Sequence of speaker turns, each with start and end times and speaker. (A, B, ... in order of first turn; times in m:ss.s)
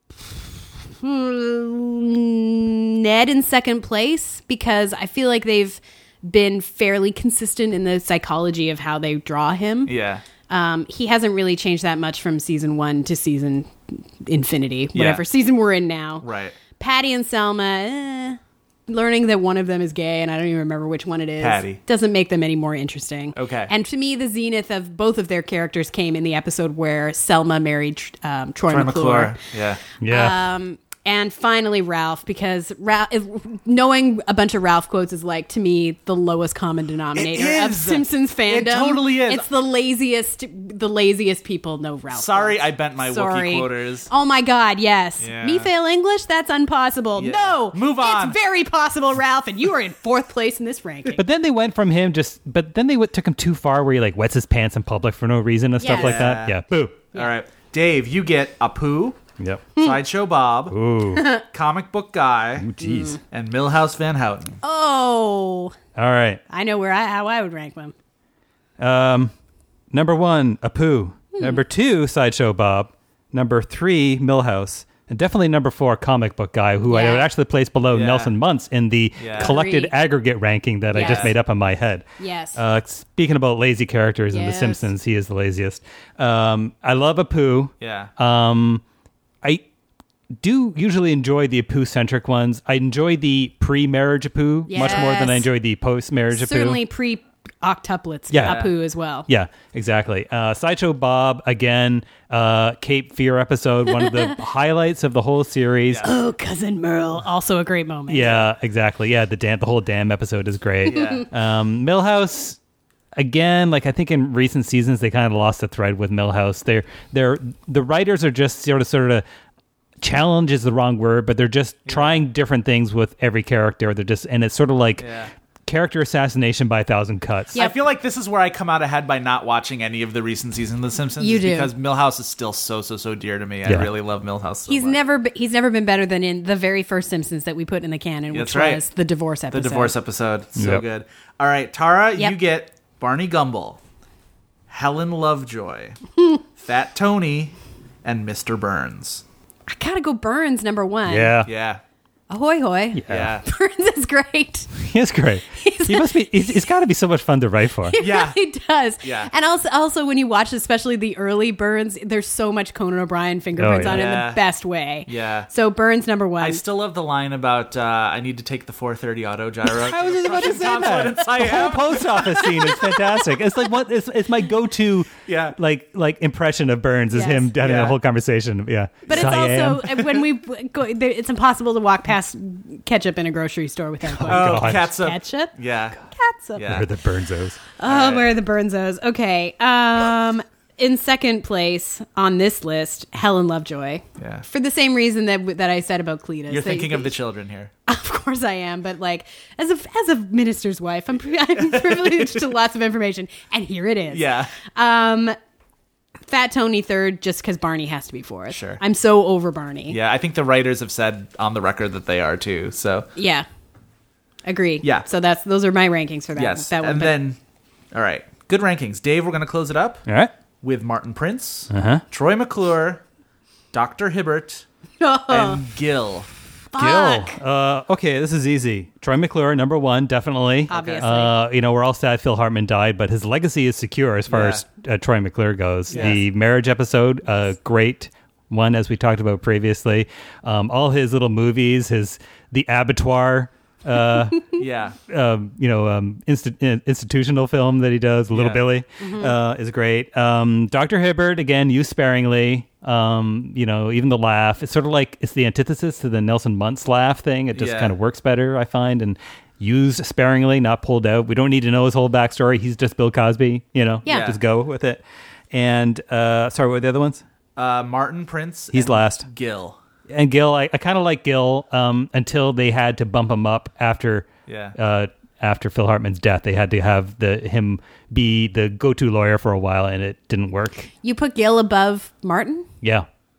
0:00.9-0:09.9 A
0:09.9-0:10.2 B
0:10.5-0:16.2 A
0:14.9-0:15.2 B
0:16.2-0:16.6 B
0:16.8-0:29.4 A
0:21.4-0:21.8 B
0:23.3-0:23.7 B
0:28.7-0:29.8 B
0:30.0-0:30.5 C
0:30.0-0:51.2 A
0:37.1-0:39.4 B
0:42.1-0:44.1 B
0:45.2-0:45.7 B
0:47.2-0:48.4 B
0:51.1-0:57.0 C
0:55.8-0:56.4 A
0:55.9-0:56.6 B
0:57.1-0:59.2 B
0:59.4-0:59.7 C
0:59.8-1:00.8 B
1:00.7-1:01.3 C
1:01.2-1:01.4 A
1:01.5-1:02.7 B
1:02.6-1:03.2 C
1:02.8-1:03.2 A
1:03.3-1:04.6 B
1:04.6-1:05.7 A
1:06.0-1:06.4 C
1:06.5-1:07.9 A
1:08.8-1:09.3 C
1:09.9-1:22.0 C
1:11.3-1:11.6 A
1:16.9-1:17.3 A
1:17.9-1:18.3 B
1:19.2-1:19.6 B
1:19.3-1:20.0 A
1:20.9-1:21.3 A
1:20.9-1:21.3 B
1:22.2-1:22.6 A
1:22.6-1:28.8 C
1:24.3-1:24.9 A
1:27.8-1:28.1 B
1:30.4-1:36.8 C
1:34.7-1:35.5 A
1:36.3-1:39.3 A
1:38.3-1:38.6 C
1:38.4-1:38.7 B
1:39.3-1:46.1 C
1:43.9-1:44.4 A
1:46.0-1:48.5 A
1:48.1-1:52.6 C
1:50.9-1:51.3 B
1:53.2-1:59.2 C
2:00.0-2:05.0 C
2:01.9-2:02.2 B
2:05.0-2:05.3 B
2:05.7-2:07.6 C
2:07.5-2:15.0 B
2:11.2-2:11.7 A
2:14.7-2:19.9 A
2:18.3-2:18.8 B
2:19.5-2:23.8 B
2:20.6-2:20.8 C
2:24.7-2:26.0 B
2:26.6-2:29.2 B
2:29.7-2:31.4 A
2:31.1-2:31.5 C
2:31.4-2:31.8 B
2:32.3-2:34.7 A
2:32.9-2:33.3 C
2:33.1-2:33.4 B
2:34.8-2:38.0 C
2:35.5-2:36.8 A
2:37.9-2:46.6 A
2:38.0-2:38.4 B
2:39.0-2:39.3 B
2:43.6-2:44.1 C
2:43.8-2:44.4 B
2:45.1-2:45.5 B
2:46.4-2:52.9 B
2:49.6-3:00.1 C
2:55.2-2:55.5 B
2:57.1-2:57.5 A
2:57.6-2:58.0 B
2:59.1-3:05.5 A
3:04.1-3:04.9 C
3:04.3-3:06.0 B
3:06.1-3:06.8 A
3:06.5-3:06.9 B
3:06.6-3:07.6 C
3:07.8-3:17.1 A
3:07.8-3:08.3 B
3:14.2-3:14.4 B
3:16.5-3:17.7 B
3:17.8-3:25.3 A
3:21.6-3:22.4 B
3:24.1-3:24.5 B
3:26.3-3:30.0 A
3:28.5-3:28.8 B
3:29.9-3:33.1 B
3:33.2-3:33.4 A
3:34.4-3:37.2 A
3:36.4-3:37.4 B
3:37.9-3:40.0 B
3:40.6-3:43.0 B
3:41.7-3:42.0 C
3:43.7-3:44.6 B
3:45.0-3:45.6 A
3:45.3-3:46.3 B
3:46.7-3:47.4 A
3:46.7-4:27.2 C
3:50.7-3:51.4 A
3:50.7-3:51.2 B
3:54.3-3:54.6 B
3:55.9-3:56.2 B
4:04.6-4:05.0 B
4:08.3-4:08.6 B
4:09.0-4:09.3 A
4:17.5-4:18.0 B
4:24.0-4:24.3 A
4:24.0-4:24.4 B
4:27.6-4:29.8 B
4:28.7-4:29.2 C
4:30.1-4:40.9 C
4:34.5-4:34.8 B
4:41.0-4:42.7 A